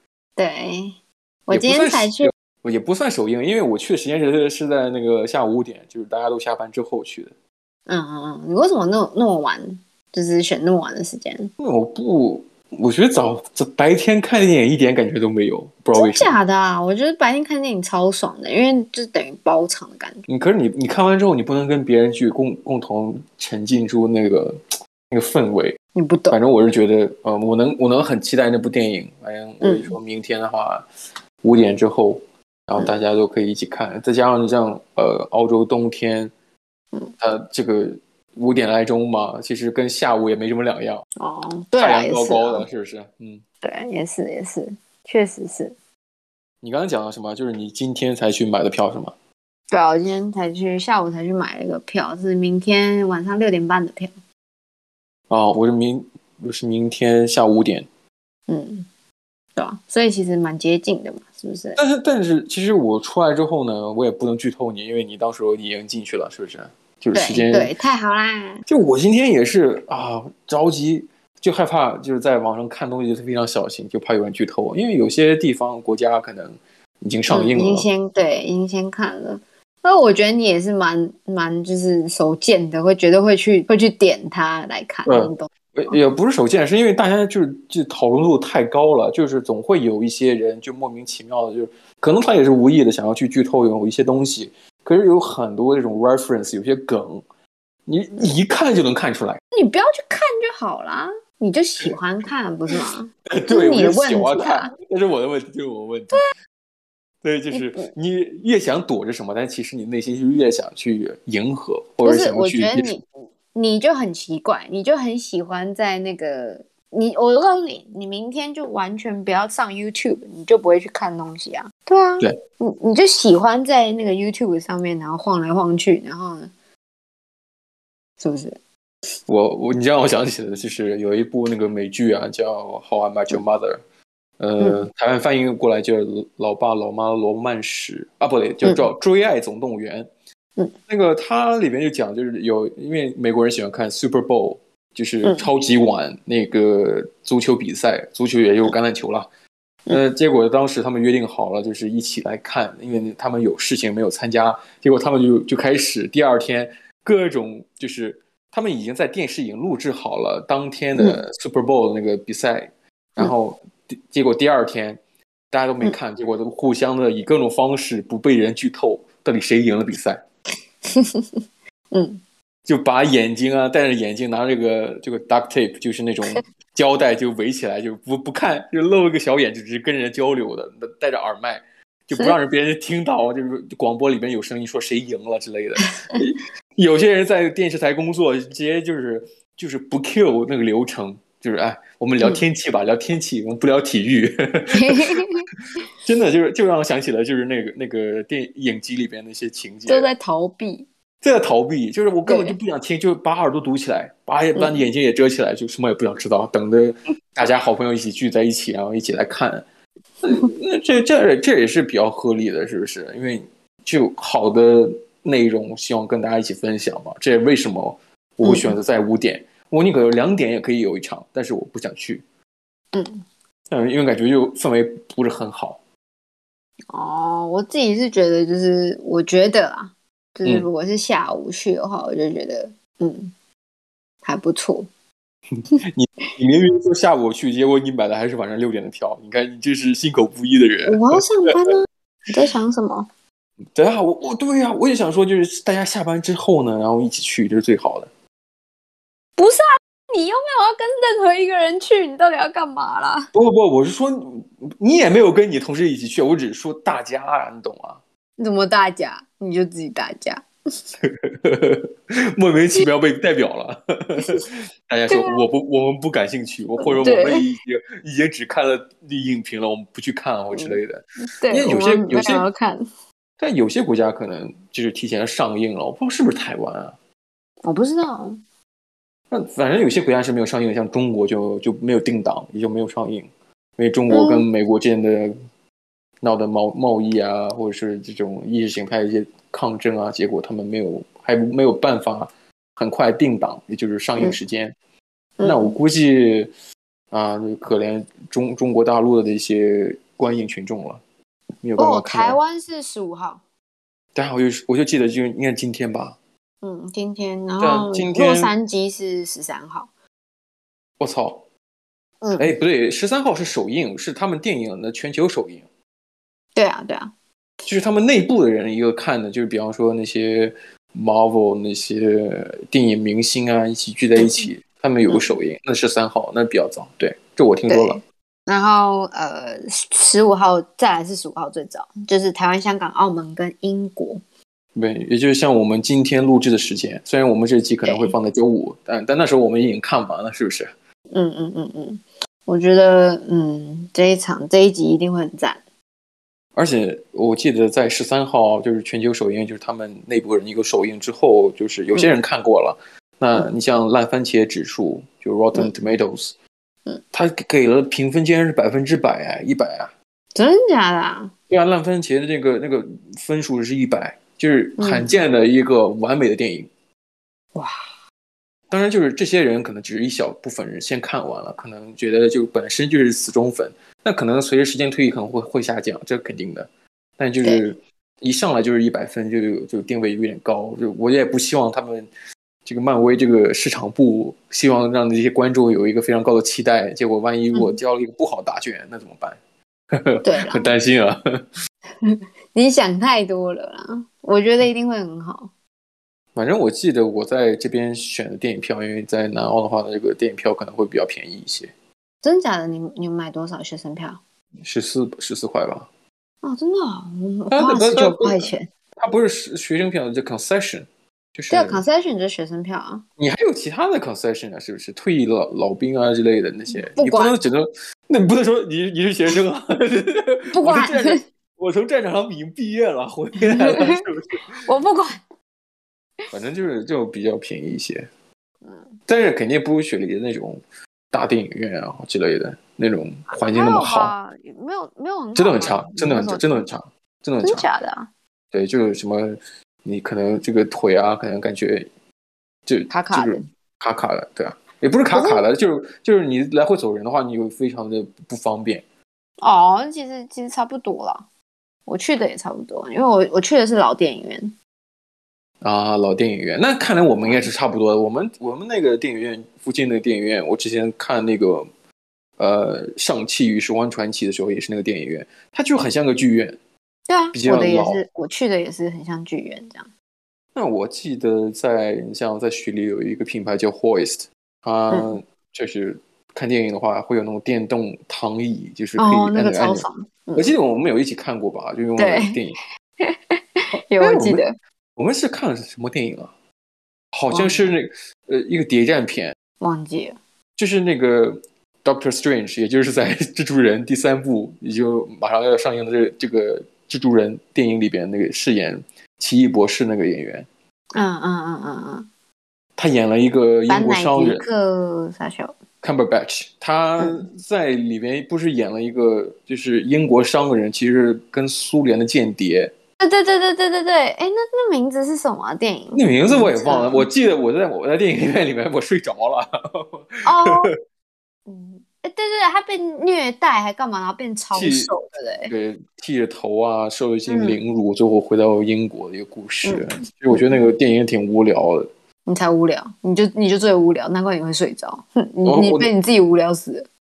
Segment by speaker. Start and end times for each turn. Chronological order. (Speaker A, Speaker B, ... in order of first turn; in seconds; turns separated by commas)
Speaker A: 0.4-1.0, Speaker A: 1.5-2.3, Speaker B: 1.5-7.3, Speaker A: 7.9-11.5, Speaker B: 11.6-16.3, Speaker A: 15.9-20.2, Speaker B: 20.3-25.8, Speaker A: 25.9-26.4, Speaker B: 26.3-30.9, Speaker A: 29.6-30.0, Speaker B: 31.4-36.3, Speaker B: 37.2-41.0, Speaker A: 41.2-42.7, Speaker B: 41.8-43.4, Speaker A: 43.6-45.8, Speaker B: 46.6-49.1, Speaker A: 49.7-54.1, Speaker B: 55.3-57.9, Speaker A: 58.5-58.9, Speaker A: 59.6-61.8, Speaker B: 61.8-67.7, Speaker A: 67.1-68.6, Speaker B: 68.7-77.9, Speaker A: 77.3-86.0, Speaker B: 85.1-97.2, Speaker B: 97.9-99.4, Speaker A: 99.5-104.7, Speaker B: 103.3-106.3, Speaker B: 107.2-112.9, Speaker A: 107.5-107.9, Speaker A: 112.0-126.5, Speaker A: 128.2-128.6, Speaker B: 129.3-133.8, Speaker B: 134.4-140.1, Speaker A: 134.6-134.8, Speaker B: 140.9-149.3, Speaker B: 149.9-165.0, Speaker B: 165.5-170.2, Speaker A: 170.9-171.3, Speaker A: 171.9-172.2, Speaker B: 172.7-195.2, Speaker A: 194.7-195.5, Speaker B: 196.0-200.1, Speaker A: 199.9-200.9, Speaker B: 201.2-209.7, Speaker A: 202.3-202.6, Speaker A: 204.6-204.8, Speaker B: 210.2-222.2, Speaker A: 218.4-218.8, Speaker A: 222.9-223.2, Speaker B: 223.7-225.8, Speaker A: 226.9-233.3, Speaker A: 234.2-234.9, Speaker B: 235.6-241.7, Speaker A: 240.9-243.1, Speaker B: 243.8-248.1, Speaker A: 249.4-253.3, Speaker B: 253.3-258.0, Speaker A: 258.4-260.4, Speaker B: 261.0-272.5, Speaker A: 265.1-265.4, Speaker A: 266.8-267.5, Speaker A: 270.5-270.8, Speaker A: 271.4-272.8, Speaker B: 273.4-276.9, Speaker A: 277.6-278.4, Speaker B: 279.3-285.3, Speaker A: 284.1-284.5, Speaker B: 286.2-294.8, Speaker A: 295.4-295.8, Speaker B: 295.4-296.5, Speaker B: 297.1-301.0, Speaker B: 301.6-302.4, Speaker A: 301.8-303.4, Speaker B: 304.1-306.2, Speaker A: 306.6-309.9, Speaker B: 307.6-308.5, Speaker B: 311.0-311.4, Speaker A: 312.2-312.5, Speaker B: 312.4-315.7, Speaker A: 316.6-317.1, Speaker B: 317.7-328.0, Speaker A: 327.7-334.2, Speaker B: 334.8-340.7, Speaker A: 337.9-338.1, Speaker A: 341.1-345.6, Speaker B: 346.6-356.4, Speaker B: 357.1-359.9, Speaker A: 360.4-361.3, Speaker B: 361.5-366.7, Speaker A: 364.8-365.1, Speaker B: 368.7-382.1, Speaker B: 382.6-389.4, Speaker B: 389.9-391.4, Speaker A: 390.2-390.7, Speaker A: 392.0-395.5, Speaker B: 396.4-401.7, Speaker A: 402.2-404.2, Speaker B: 404.6-405.9, Speaker A: 406.4-408.7, Speaker B: 407.5-411.8, Speaker A: 411.5-413.1, Speaker B: 413.2-424.5, Speaker A: 416.7-417.4, Speaker A: 420.5-421.2, Speaker A: 423.4-425.2, Speaker B: 426.3-428.1, Speaker B: 429.1-430.6, Speaker B: 431.1-434.1, Speaker A: 433.3-436.6, Speaker B: 435.4-437.7, Speaker A: 437.4-438.1, Speaker B: 438.5-441.9, Speaker B: 442.7-448.8, Speaker A: 442.9-443.5, Speaker A: 445.1-445.4, Speaker A: 449.4-451.3, Speaker A: 451.9-454.6, Speaker B: 455.6-461.7, Speaker A: 457.2-457.5, Speaker B: 462.4-466.6, Speaker A: 467.1-469.9, Speaker B: 467.3-468.0, Speaker B: 470.6-482.6, Speaker A: 479.0-480.5, Speaker A: 482.0-482.4, Speaker A: 483.0-484.6, Speaker B: 484.0-484.4, Speaker B: 485.0-486.3, Speaker B: 487.1-489.4, Speaker A: 487.3-487.7, Speaker A: 489.6-490.2, Speaker B: 490.6-500.5, Speaker A: 500.9-502.1, Speaker B: 502.8-504.5, Speaker A: 503.7-505.6, Speaker B: 505.8-512.7, Speaker A: 507.0-507.3, Speaker A: 513.0-517.1, Speaker B: 515.9-520.7, Speaker A: 520.2-520.7, Speaker A: 521.5-525.5, Speaker B: 524.5-524.9, Speaker B: 525.5-531.9, Speaker A: 527.3-527.6, Speaker A: 529.6-530.7, Speaker A: 532.3-536.9, Speaker B: 535.5-535.9